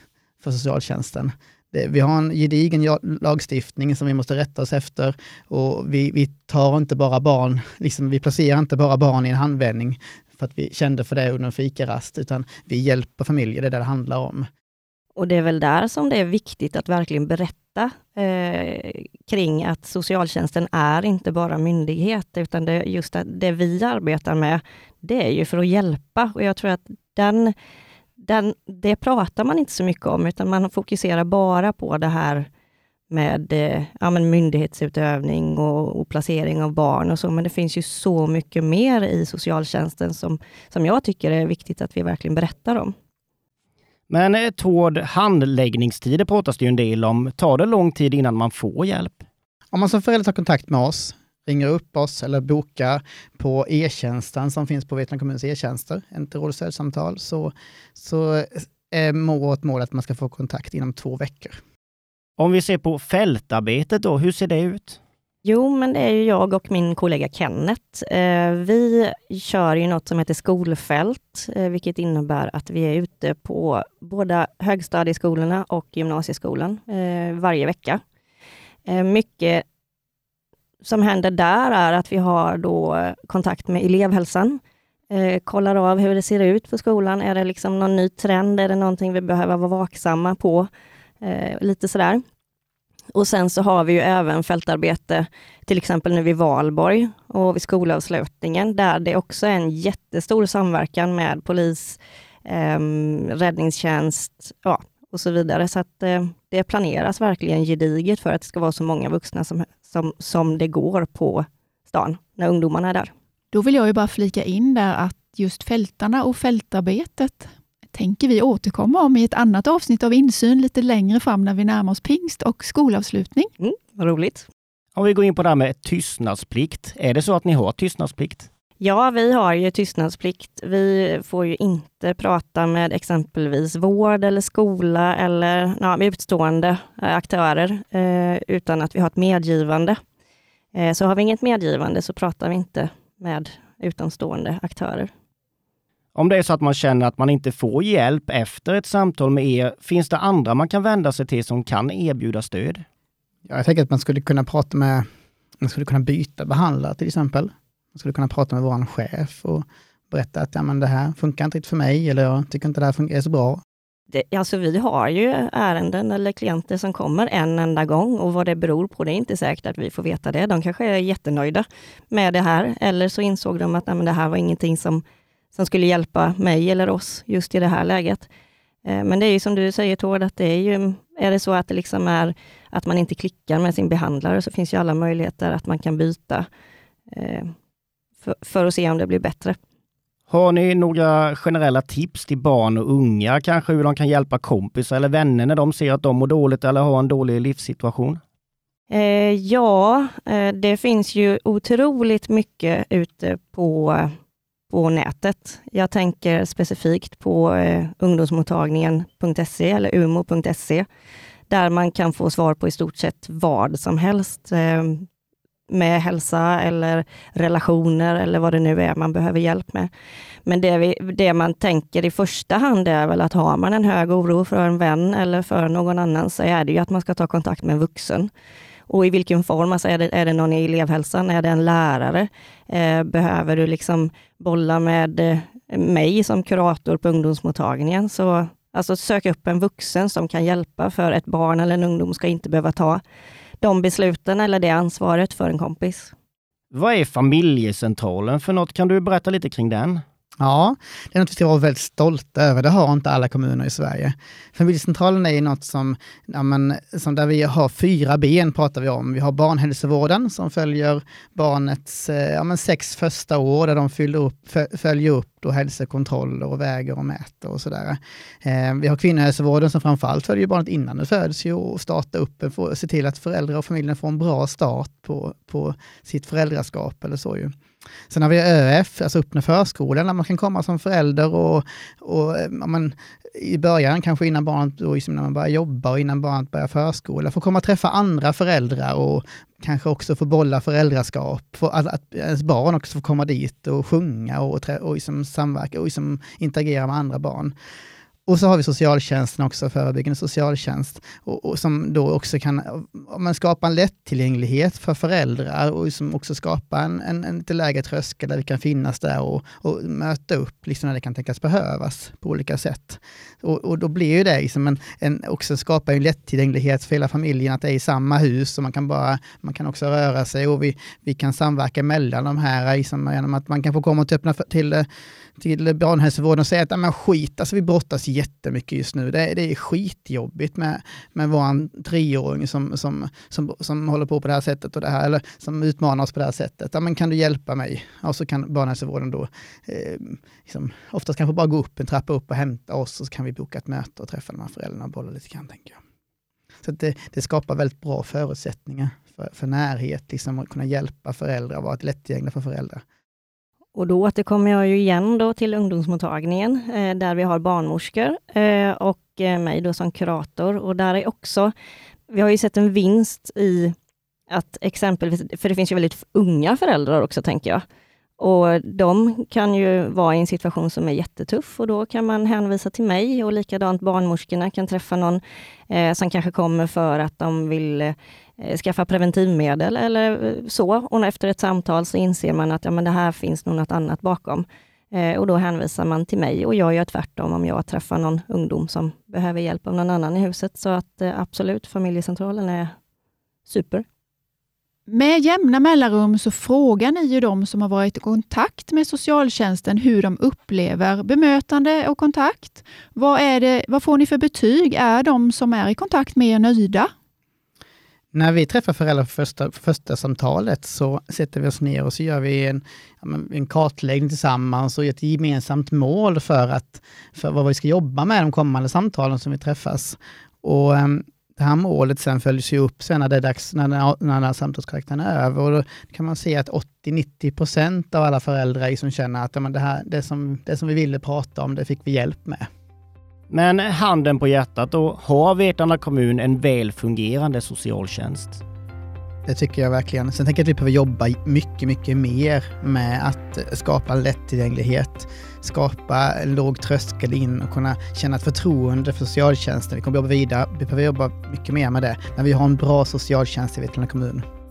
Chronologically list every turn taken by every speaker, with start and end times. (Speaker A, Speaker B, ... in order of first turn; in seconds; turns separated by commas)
Speaker A: 0.4-14.5, Speaker B: 15.2-27.5, Speaker B: 28.2-32.5, Speaker B: 33.1-43.0, Speaker C: 44.1-49.2, Speaker A: 49.7-61.6, Speaker C: 62.4-65.0, Speaker B: 65.4-78.0, Speaker B: 78.9-79.6, Speaker B: 80.8-84.6, Speaker B: 85.1-90.7, Speaker B: 91.2-92.2, Speaker B: 93.1-113.1, Speaker D: 113.5-123.5, Speaker B: 123.6-124.5, Speaker C: 125.0-128.5, Speaker B: 128.8-140.0, Speaker B: 140.7-145.1, Speaker C: 146.2-152.8, Speaker A: 153.5-155.1, Speaker A: 155.6-163.6, Speaker B: 164.1-178.3, Speaker B: 178.8-186.5, Speaker B: 187.1-187.5, Speaker B: 188.2-189.6, Speaker C: 190.3-198.2, Speaker B: 198.9-204.1, Speaker B: 204.7-210.9, Speaker B: 211.5-215.1, Speaker B: 215.7-219.9, Speaker B: 220.5-228.3, Speaker B: 228.9-243.0, Speaker B: 243.6-246.1, Speaker C: 246.7-250.0, Speaker A: 250.4-277.5, Speaker A: 278.1-297.5, Speaker A: 298.3-324.9, Speaker A: 325.4-345.8, Speaker A: 346.6-352.8, Speaker B: 353.7-361.5, Speaker B: 362.1-363.8, Speaker B: 364.3-367.6, Speaker B: 368.2-392.7, Speaker B: 393.5-393.9, Speaker D: 394.9-406.9, Speaker A: 408.1-432.5, Speaker C: 433.3-438.4, Speaker A: 439.3-454.2